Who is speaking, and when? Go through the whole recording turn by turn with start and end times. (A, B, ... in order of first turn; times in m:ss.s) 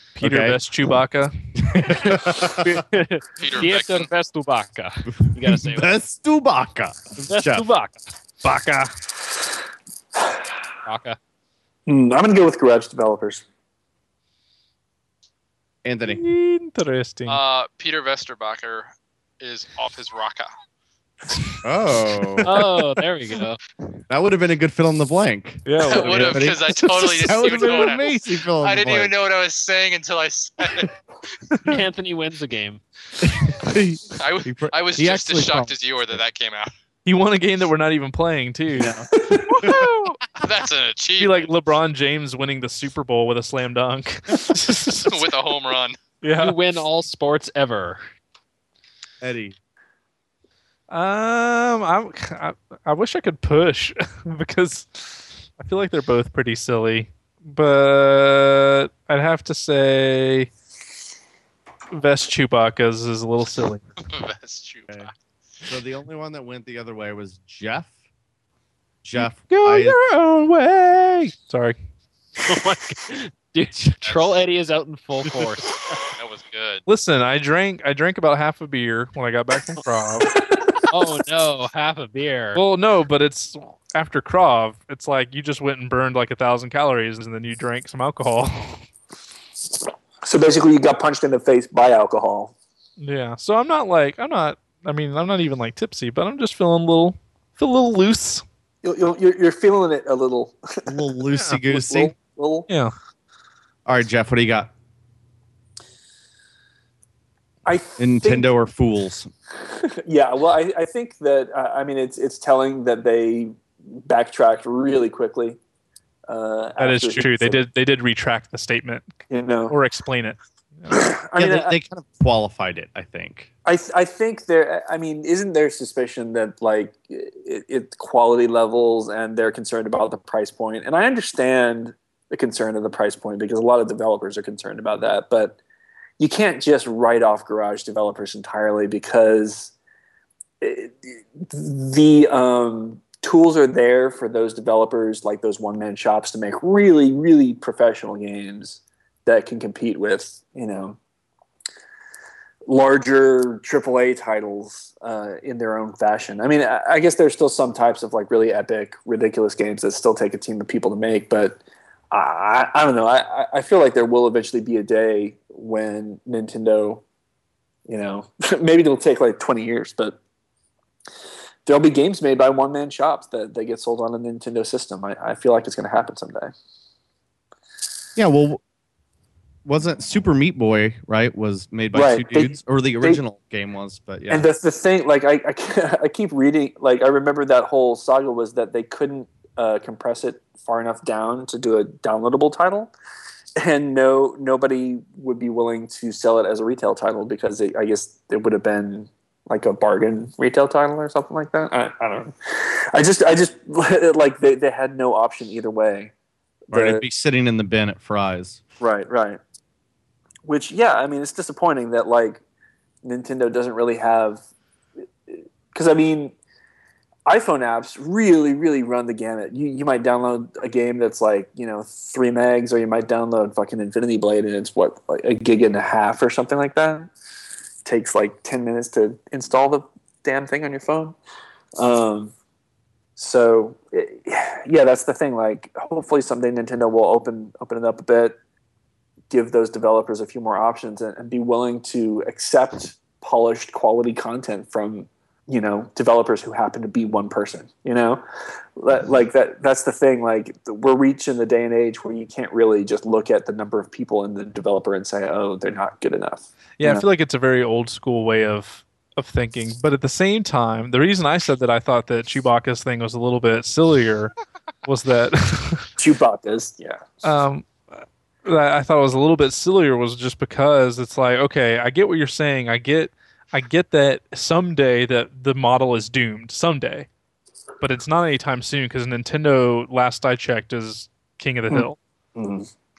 0:00.2-0:02.2 A
0:00.2-0:00.6 B
0:01.6-0:02.8 B
0:02.1-0:05.9 C
0:03.4-0:04.1 D
0:05.2-0:07.6 B
0:07.3-0:08.0 C
0:08.4-0:08.9 A
0:10.8-0:11.2 C
0:11.9-0:13.4 E
0:15.8-0:16.2 B
0:16.0-0:17.4 A
0:17.3-0:20.5 D
0:21.6-0:22.5 B
0:22.4-0:23.6 C
0:24.1-0:29.1 B
0:25.6-0:26.6 A
0:25.8-0:30.9 D
0:27.3-0:27.9 A
0:31.5-0:31.8 A
0:31.6-0:32.8 C
0:33.2-0:36.2 B
0:34.2-0:36.7 D
0:37.0-0:39.0 A
0:38.8-0:39.1 B
0:39.1-0:39.5 E
0:39.7-0:40.2 A
0:39.7-0:41.5 D
0:41.2-0:45.2 A
0:45.0-0:46.0 D
0:46.2-0:46.6 A
0:46.3-0:48.0 C
0:49.2-0:49.6 B
0:50.9-1:00.5 A
1:01.9-1:03.8 A
1:04.0-1:05.1 D
1:05.6-1:07.9 B
1:09.0-1:10.0 B
1:09.2-1:11.8 A
1:12.4-1:15.9 C
1:14.0-1:14.4 D
1:16.0-1:16.8 D
1:16.9-1:20.3 A
1:20.5-1:20.8 E
1:20.9-1:22.6 C
1:22.5-1:28.8 A
1:30.2-1:32.5 E
1:33.0-1:38.4 A
1:38.8-1:41.0 E
1:40.9-1:42.1 B
1:41.3-1:41.6 A
1:41.6-1:42.7 E
1:42.7-1:42.9 A
1:43.8-1:44.7 B
1:47.6-1:48.5 E
1:48.0-1:49.3 B
1:49.6-1:55.6 E
1:56.3-1:57.6 E
1:56.8-1:59.1 A
1:59.3-1:59.7 E
1:59.7-2:01.1 A
2:00.9-2:01.7 E
2:01.3-2:03.5 B
2:03.6-2:15.6 E
2:16.2-2:19.7 E
2:20.6-2:31.0 E
2:32.6-2:41.6 E
2:42.1-2:47.0 E
2:47.9-2:50.2 E
2:51.6-2:56.5 E
2:58.2-2:58.6 B
2:59.6-3:04.5 B
3:01.9-3:03.2 E
3:04.3-3:12.9 E
3:13.6-3:26.1 E
3:26.7-3:27.0 E
3:26.7-3:28.6 B
3:28.8-3:29.4 E
3:30.4-3:32.4 E
3:33.0-3:34.4 E
3:35.3-3:36.3 E
3:37.2-3:47.1 E
3:47.8-3:51.2 E
3:51.8-3:52.3 E
3:53.2-3:58.4 E
3:59.3-4:08.2 E
4:08.8-4:17.0 E
4:16.8-4:24.3 A
4:24.8-4:25.9 A
4:26.0-4:27.1 E
4:27.2-4:37.1 A
4:37.8-4:42.0 A
4:41.7-4:42.7 E